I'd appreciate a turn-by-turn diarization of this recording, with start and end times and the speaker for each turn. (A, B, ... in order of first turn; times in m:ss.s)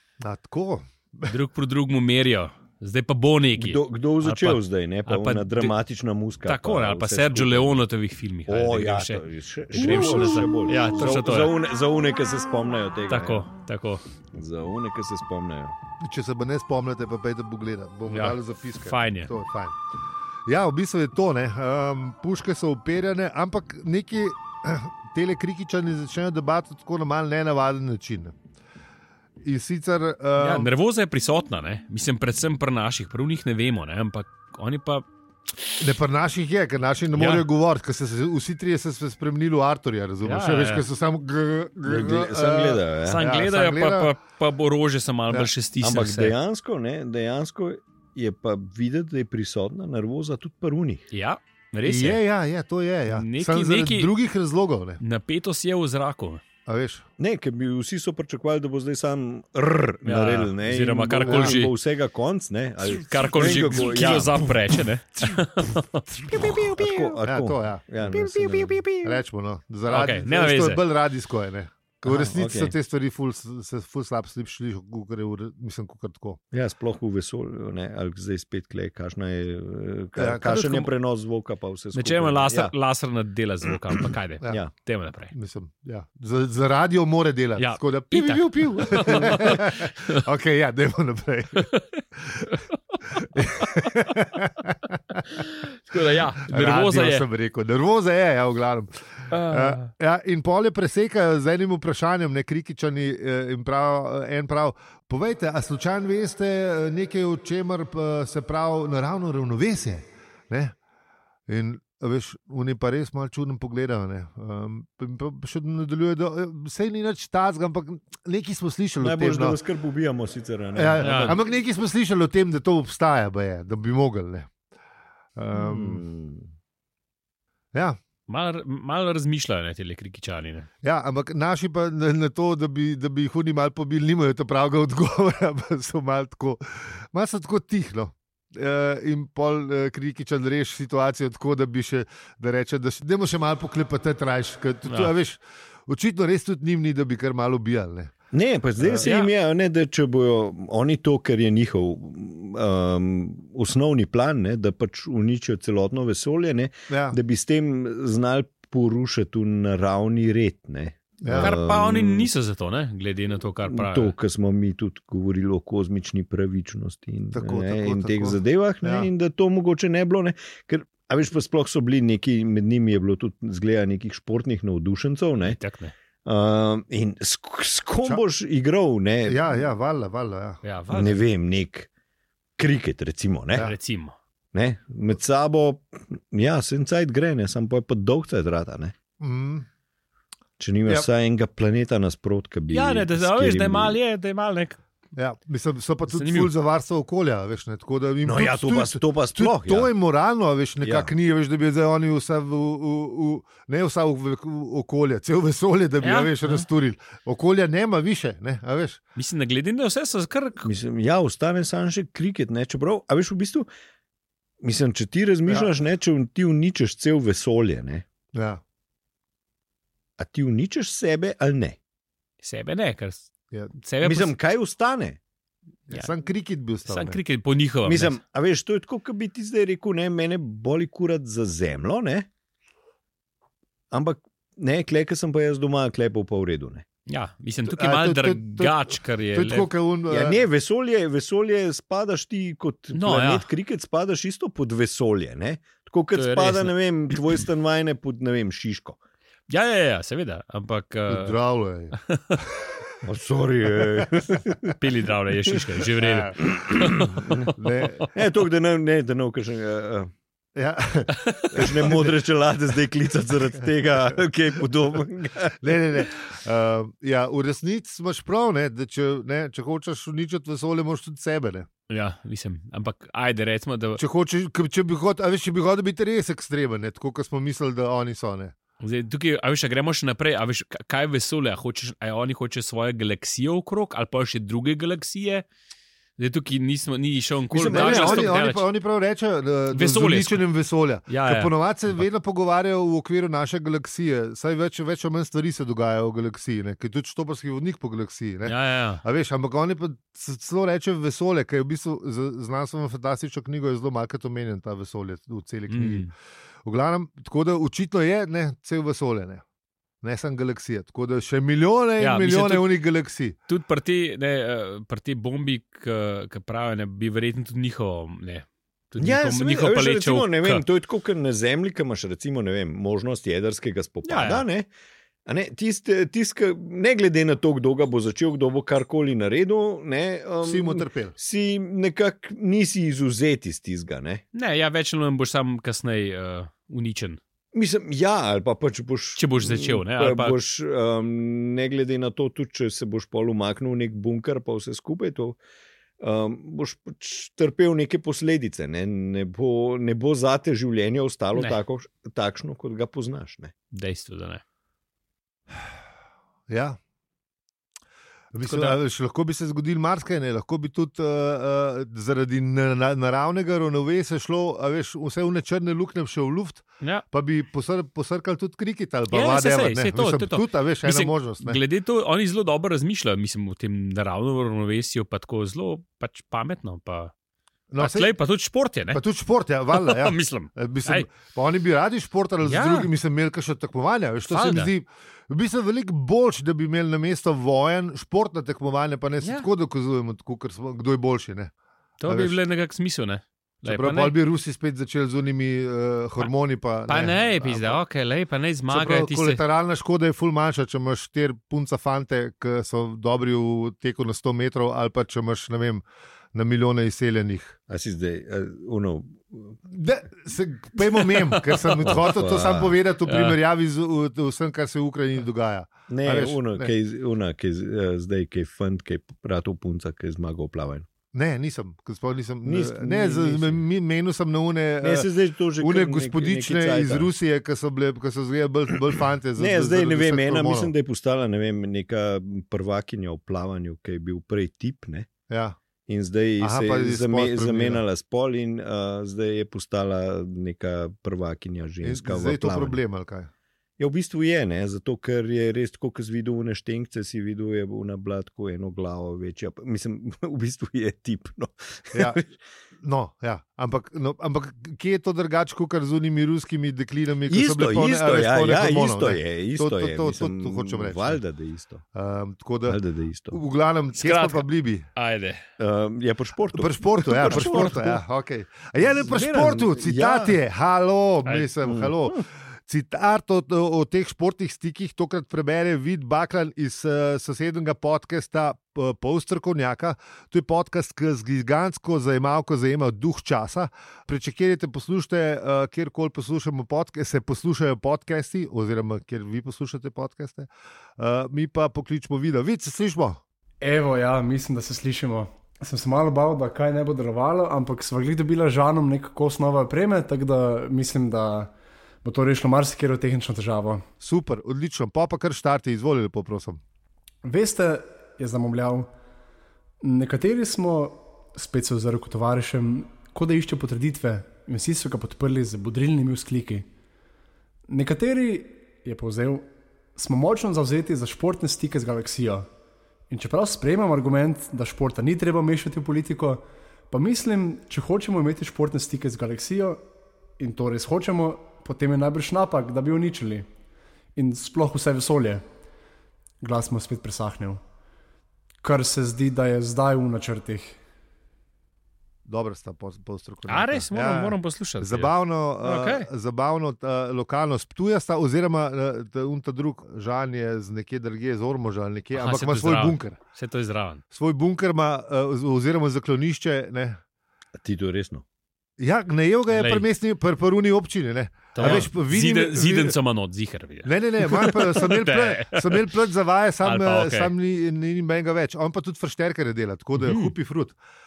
0:00.2-0:01.3 A
0:01.3-0:05.7 B
0:03.6-0:07.8 C
0:06.4-0:11.5 B
0:08.5-0:13.5 C
0:13.1-0:14.0 B
0:14.3-0:15.8 C
0:16.0-0:19.8 A
0:18.1-0:19.3 B
0:20.5-0:28.4 A
0:29.4-0:30.7 A
0:30.4-0:35.0 B
0:35.8-0:44.1 A
0:37.1-0:37.4 B
0:40.2-0:40.8 B
0:41.8-0:43.3 C
0:43.0-0:46.3 B
0:45.8-0:51.0 C
0:51.1-0:52.2 B
0:51.8-0:55.0 A
0:53.1-0:54.1 B
0:55.0-0:56.4 B
0:56.7-0:57.1 A
0:57.2-1:04.6 C
1:00.0-1:01.7 B
1:01.3-1:01.6 A
1:02.9-1:07.2 B
1:06.3-1:16.4 A
1:06.3-1:08.8 C
1:08.1-1:09.2 B
1:09.9-1:10.8 B
1:12.1-1:12.8 C
1:16.5-1:22.7 C
1:20.2-1:20.8 A
1:20.5-1:20.8 B
1:21.9-1:25.3 B
1:25.3-1:32.6 A
1:27.6-1:30.2 B
1:33.1-1:35.4 A
1:35.3-1:37.3 B
1:35.9-1:50.8 A
1:39.3-1:39.9 B
1:51.5-1:59.6 A
1:59.0-2:01.4 C
2:00.8-2:04.5 A
2:01.0-2:01.4 B
2:05.4-2:06.0 A
2:05.5-2:06.5 C
2:08.3-2:10.7 B
2:10.8-2:28.1 A
2:24.9-2:25.1 B
2:28.3-2:42.3 C
2:28.8-2:29.1 A
2:29.0-2:29.3 B
2:36.9-2:37.2 A
2:41.2-2:41.5 A
2:41.4-2:44.1 B
2:43.7-2:55.6 C
2:47.3-2:49.1 A
2:55.4-2:55.9 B
2:56.2-2:59.4 C
2:59.3-3:00.6 A
3:00.6-3:01.2 B
3:00.9-3:01.9 C
3:02.6-3:03.7 C
3:03.6-3:04.2 B
3:04.5-3:08.9 C
3:09.2-3:09.7 A
3:10.6-3:14.0 C
3:12.7-3:14.8 B
3:15.2-3:29.0 A
3:16.1-3:16.5 B
3:18.2-3:19.9 C
3:20.8-3:21.1 C
3:26.0-3:26.7 B
3:29.2-3:30.7 B
3:30.6-3:33.7 C
3:34.6-3:38.0 C
3:38.3-3:38.6 A
3:40.2-3:41.8 C
3:42.4-3:44.3 B
3:44.0-3:45.2 C
3:45.9-3:47.2 A
3:46.9-3:48.2 B
3:47.9-3:52.3 C
3:53.9-3:56.8 C
3:57.1-3:59.7 B
3:57.7-4:00.4 A
4:00.1-4:09.0 C
4:02.9-4:03.5 B
4:06.1-4:07.4 B
4:09.5-4:11.4 B
4:11.1-4:12.8 A
4:11.9-4:12.4 B
4:13.0-4:14.8 C
4:13.8-4:14.7 A
4:14.8-4:17.5 B
4:16.0-4:16.4 A
4:16.4-4:17.5 C
4:17.6-4:18.1 A
4:18.1-4:20.1 C
4:20.6-4:22.1 A
4:21.5-4:25.6 C
4:25.6-4:31.7 A
4:31.9-4:34.0 B
4:34.0-4:38.6 A
4:38.8-4:45.5 B
4:46.2-4:48.7 B
4:47.5-4:48.4 C
4:47.7-5:06.1 A
4:49.7-4:50.4 B
4:51.1-4:51.5 B
4:58.4-4:59.0 B
5:05.7-5:06.1 B
5:06.6-5:09.4 A
5:10.0-5:13.4 A
5:12.0-5:12.7 B
5:13.5-5:20.6 B
5:19.0-5:24.7 C
5:24.0-5:24.4 B
5:25.3-5:34.2 C
5:30.4-5:31.1 A
5:34.3-5:37.2 B
5:37.5-5:45.4 C
5:39.2-5:40.4 B
5:46.0-5:53.5 C
5:53.7-5:54.4 B
5:56.5-5:56.8 A
5:58.3-6:11.6 A
5:58.4-5:58.8 B
6:09.1-6:17.1 B
6:17.7-6:18.1 A
6:17.8-6:19.0 B
6:18.9-6:31.5 A
6:19.7-6:21.1 B
6:22.4-6:22.9 B
6:24.3-6:24.7 B
6:32.0-6:34.2 B
6:32.1-6:32.4 A
6:33.6-6:37.8 A
6:36.9-6:39.4 B
6:38.7-6:45.8 A
6:46.3-6:47.6 A
6:47.7-6:49.6 C
6:49.7-6:56.7 A
6:51.1-6:51.9 B
6:51.8-6:52.8 C
6:53.1-6:53.4 B
6:55.9-7:00.9 C
7:01.1-7:10.7 A
7:02.4-7:03.6 C
7:04.8-7:07.1 C
7:09.4-7:15.1 C
7:15.3-7:15.6 A
7:15.9-7:22.8 C
7:16.4-7:17.8 A
7:21.8-7:23.3 A
7:23.8-7:32.4 C
7:31.9-7:32.2 A
7:32.8-7:41.2 A
7:37.3-7:41.8 C
7:42.0-7:42.8 A
7:42.7-7:43.4 C
7:43.3-7:44.9 A
7:44.0-7:45.4 B
7:45.6-7:48.0 C
7:46.6-8:13.2 A
7:47.1-7:48.0 B
7:48.8-7:50.4 C
7:51.2-7:51.5 B
7:51.6-7:52.2 C
8:13.6-8:21.5 D
8:22.0-8:23.8 D
8:24.0-8:26.6 A
8:27.2-8:28.9 D
8:29.8-8:36.7 D
8:37.7-8:42.5 D
8:43.1-8:49.8 D
8:50.4-8:53.5 D
8:54.2-8:55.4 D
8:56.4-8:57.6 D
8:58.6-9:00.8 D
9:02.3-9:13.2 A
9:03.5-9:06.1 B
9:12.1-9:14.0 B
9:14.1-9:17.0 A
9:17.6-9:18.2 C
9:18.8-9:23.0 A
9:19.5-9:19.9 B
9:21.6-9:25.9 B
9:23.8-9:30.8 A
9:26.6-9:27.3 B
9:30.0-9:30.3 B